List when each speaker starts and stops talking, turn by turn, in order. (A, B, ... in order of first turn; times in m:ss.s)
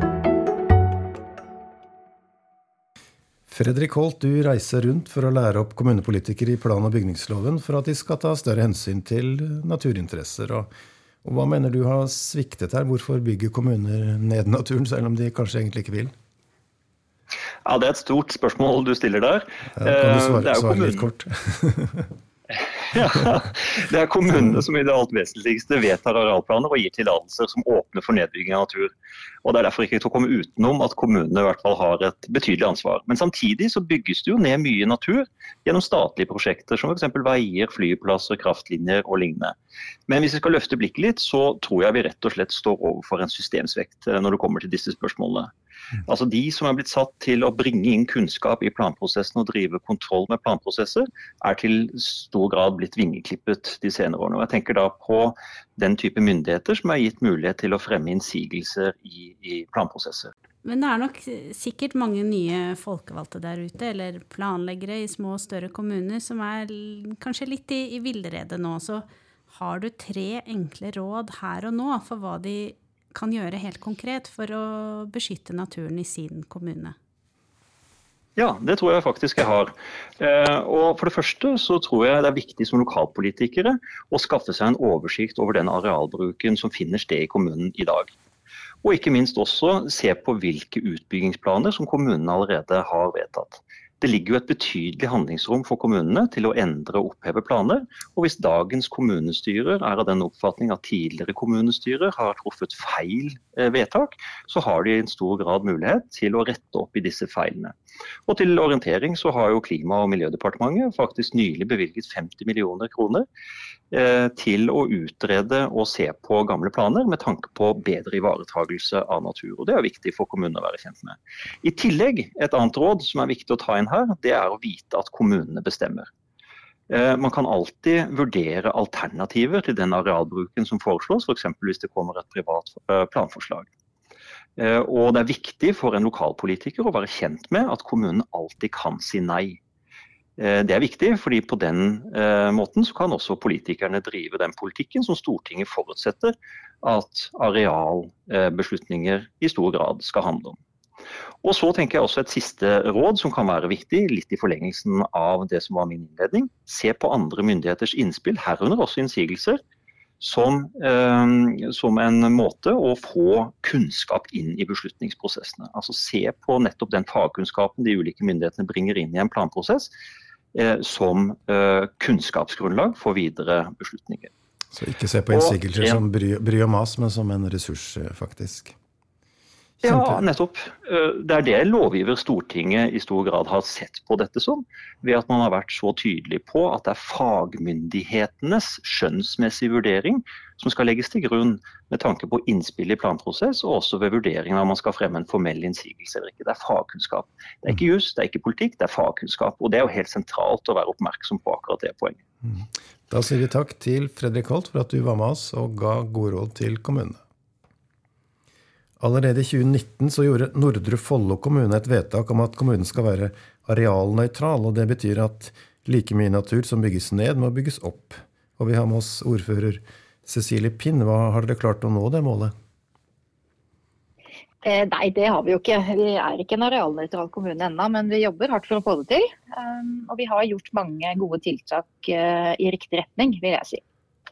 0:03.5-0:10.7 A
0:11.2-0:16.1 A
0:17.6-0:21.0 B
0:19.8-0:22.1 A
0:22.9-0:28.9 B
0:29.4-0:39.5 B
0:40.1-0:45.5 B
0:46.0-1:00.3 B
1:00.6-1:17.0 C
1:18.4-1:28.1 B
1:28.8-1:47.7 B
1:48.3-1:53.3 B
1:53.9-2:06.1 B
2:06.9-2:13.7 B
2:14.6-2:19.6 B
2:20.4-2:30.6 B
2:31.4-2:39.6 B
2:40.2-2:49.9 B
2:50.5-2:54.3 B
2:54.7-2:58.7 A
2:55.3-2:56.0 B
2:59.8-3:00.2 A
2:59.8-3:22.2 B
3:22.4-3:27.2 A
3:29.0-3:42.5 A
3:44.6-3:53.8 D